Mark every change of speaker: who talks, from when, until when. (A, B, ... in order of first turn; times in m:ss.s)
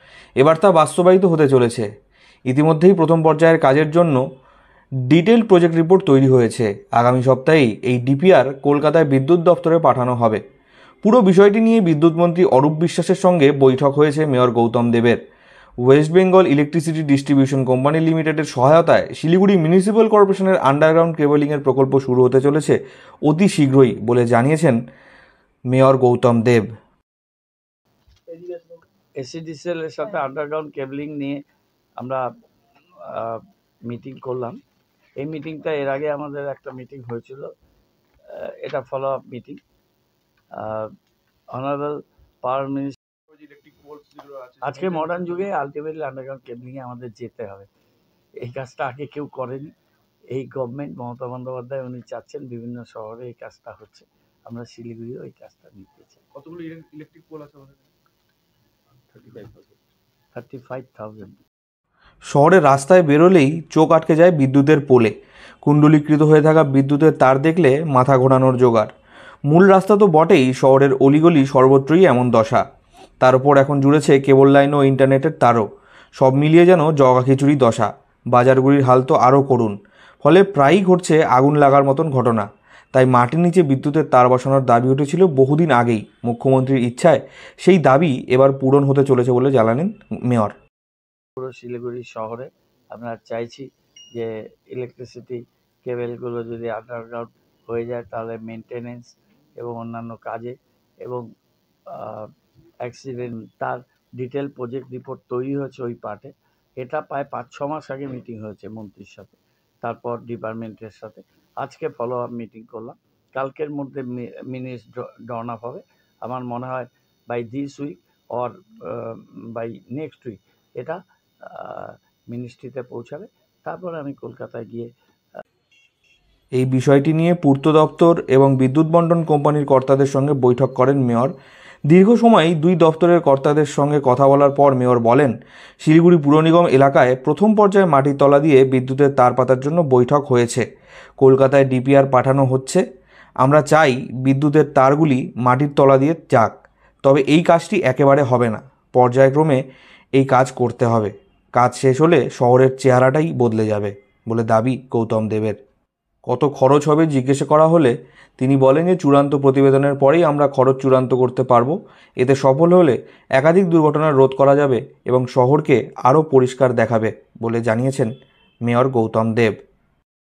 0:00.4-0:01.9 A
0:02.5-0:04.2 A
0:05.1-0:10.4 A
0:11.0-0:15.2 A
0:15.8-0:22.8 A
0:23.3-0:24.8 A
0:25.7-0:26.7 A
0:29.2-0:31.4 B
0:33.0-0:34.6 B
0:35.2-0:37.5 B
0:38.3-0:39.6 B
0:40.6-0:40.9 B
0:41.5-0:43.0 B
0:43.3-0:45.4 C
0:44.6-0:47.7 B
0:48.4-0:49.7 B
0:50.3-0:56.2 B
0:56.4-0:57.9 C
0:59.1-0:59.7 B
1:00.3-1:01.4 B
1:02.3-1:08.9 A
1:09.5-1:12.6 A
1:13.2-1:15.7 A
1:16.2-1:30.5 A
1:31.4-1:41.2 B
1:41.9-1:42.3 B
1:42.8-2:04.9 B
2:06.5-2:11.3 A
2:11.9-2:20.6 A
2:21.2-2:22.8 A
2:23.4-2:29.6 A
2:30.2-2:35.6 A
2:36.2-2:48.1 A
2:48.6-2:49.6 A